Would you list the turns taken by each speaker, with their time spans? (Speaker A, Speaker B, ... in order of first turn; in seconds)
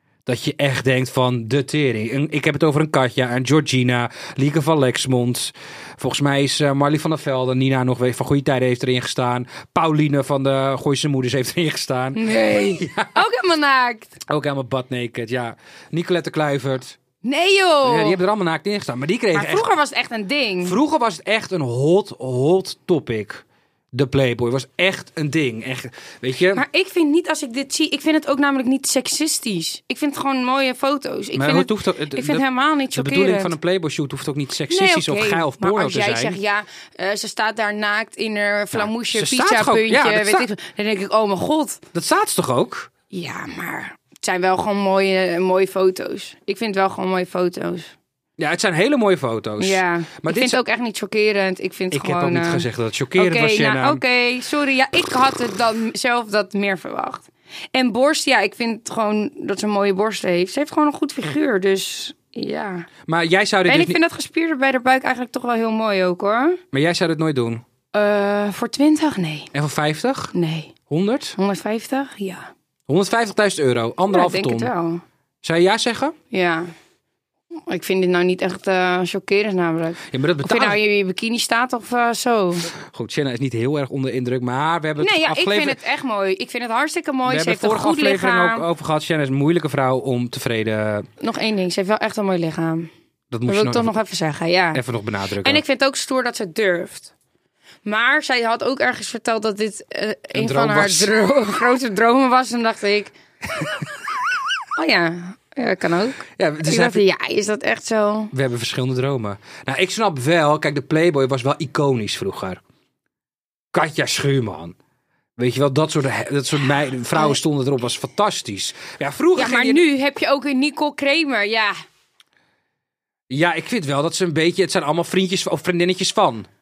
Speaker A: 0.3-13.2, 14.3-17.0, 17.8-19.7, 20.6-26.6, 31.4-36.4, 38.7-40.5, 41.9-42.9, 48.4-50.6, 51.9-54.0, 63.1-64.0, 66.7-67.6, 69.5-70.3, 70.9-71.4, 72.9-74.7, 75.4-76.2, 80.1-80.8, 82.8-85.8, 87.2-91.1, 93.3-93.9, 94.7-95.6, 100.3-101.1, 106.4-107.0, 108.3-112.6, 113.7-114.8, 115.4-119.8, 123.3-126.5
Speaker B: 12.2-14.2, 17.2-18.2, 19.3-20.8, 26.6-33.5, 34.7-41.8, 43.1-47.9, 49.6-62.9, 63.7-66.6, 67.9-69.5, 70.3-70.7, 71.4-72.5, 74.1-75.0, 76.3-76.7, 77.7-82.7, 85.0-88.7, 91.2-92.9, 93.5-94.8, 95.4-97.1, 97.8-103.1, 104.8-108.3, 119.3-121.7